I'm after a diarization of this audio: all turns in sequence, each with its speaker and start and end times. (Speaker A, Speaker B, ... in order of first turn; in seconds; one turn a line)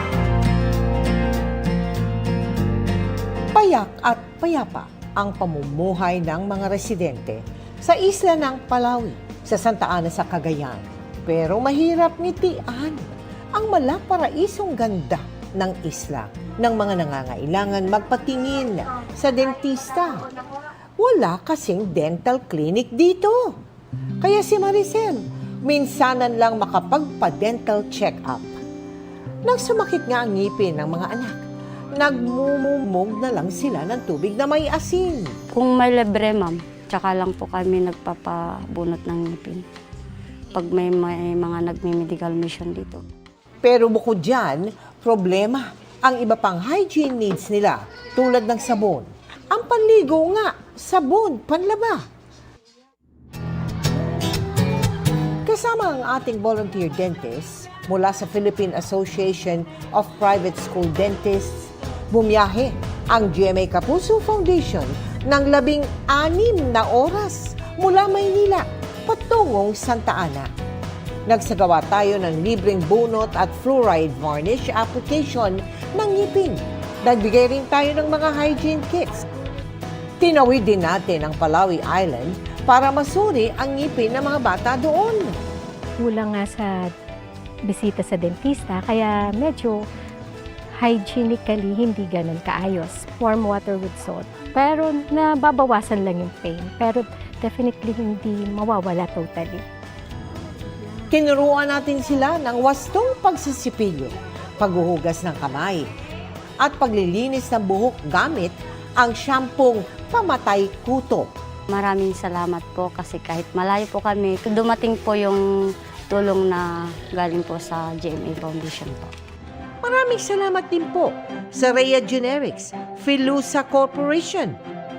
Speaker A: 3.5-20.3
Speaker A: 21.0-23.6
Speaker A: 24.2-28.6
Speaker A: 29.4-31.4
Speaker A: 31.9-35.3
Speaker B: 35.5-39.6
Speaker B: 40.5-43.0
Speaker A: 43.6-52.0
Speaker A: 55.4-70.5
Speaker A: 71.3-79.2
Speaker A: 80.2-85.3
Speaker C: 86.0-86.9
Speaker C: 87.7-89.8
Speaker C: 90.8-99.6
Speaker A: 101.1-105.9
Speaker A: 106.6-111.3
Speaker B: 111.7-115.4
Speaker B: 116.1-119.1
Speaker A: 119.8-124.5